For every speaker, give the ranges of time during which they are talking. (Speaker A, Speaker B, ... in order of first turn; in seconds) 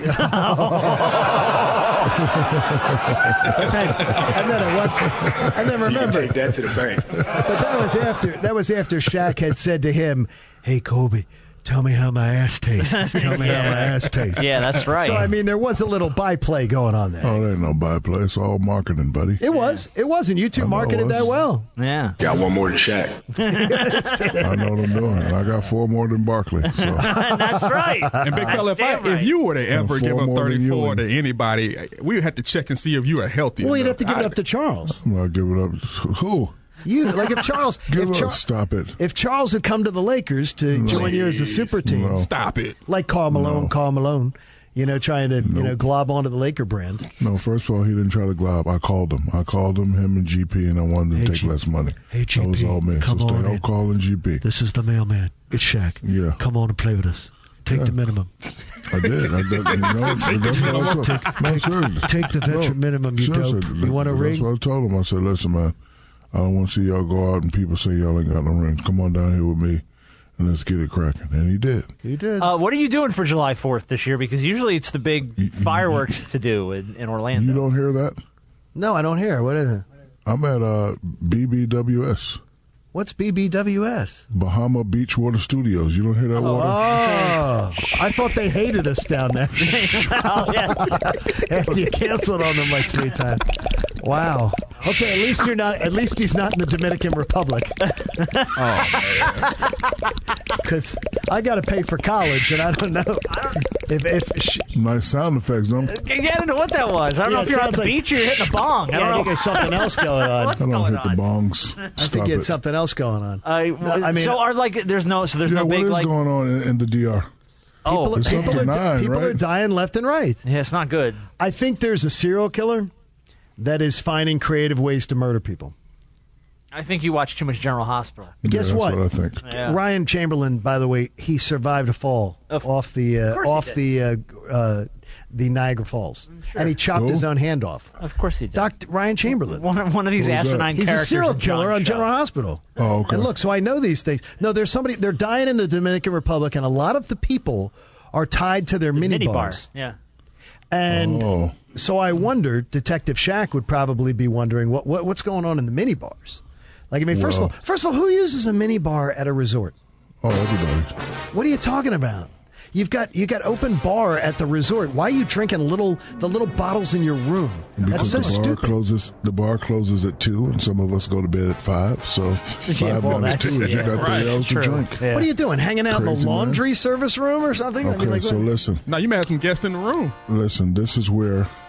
Speaker A: 0.1-2.1, 3.6-4.1, 12.9-15.3, 19.5-19.8, 21.8-22.2, 23.4-24.4, 26.8-29.3, 72.4-77.6, 86.3-87.5, 89.8-91.0, 97.9-99.2, 103.3-103.7, 105.9-111.3, 113.4-116.1, 117.8-118.7, 120.5-121.2, 126.7-128.3, 129.4-129.8, 133.3-133.8, 136.3-136.7, 138.0-138.7, 139.3-142.1, 148.9-150.0, 167.9-168.4, 172.6-175.3
Speaker B: 0.1-1.2, 3.5-6.4, 7.3-17.4, 19.4-21.7, 23.5-24.6, 27.1-28.6, 33.6-35.0, 36.9-38.4, 39.0-42.3, 42.9-47.1, 51.1-51.5, 52.1-53.6, 54.4-58.3, 60.2-64.5, 72.0-72.5, 78.8-79.8, 82.9-84.3, 86.5-93.5, 94.0-97.8, 100.6-104.7, 107.2-110.6, 112.0-114.5, 117.9-120.4, 121.4-122.9, 123.6-125.7, 128.4-137.9, 138.5-139.7, 140.7-149.7, 150.7-159.8, 161.3-168.8, 175.1-178.5
Speaker C: 2.3-3.7, 17.2-19.4, 20.6-21.4, 24.4-27.2, 29.7-31.0, 35.0-36.5, 37.9-39.0, 40.7-41.2, 41.8-42.3, 43.3-43.7, 45.4-45.8, 47.2-54.5, 56.0-56.4, 57.7-58.0, 58.9-65.8, 66.3-69.8, 70.4-71.9, 75.4-76.2, 77.3-78.2, 80.3-82.4, 84.3-87.2, 104.7-106.0, 110.6-112.5, 115.4-117.3, 118.1-119.4, 128.4-129.4, 136.9-137.3, 140.2-140.7, 142.8-143.3, 150.9-151.6, 157.1-157.5, 160.2-160.9, 167.8-175.1, 175.9-176.6, 177.8-178.8, 180.3-181.5
Speaker D: 5.8-7.6, 22.2-23.2
Speaker E: 28.2-34.4, 40.9-42.8, 59.6-61.3, 98.7-99.3, 173.5-174.3, 178.9-180.2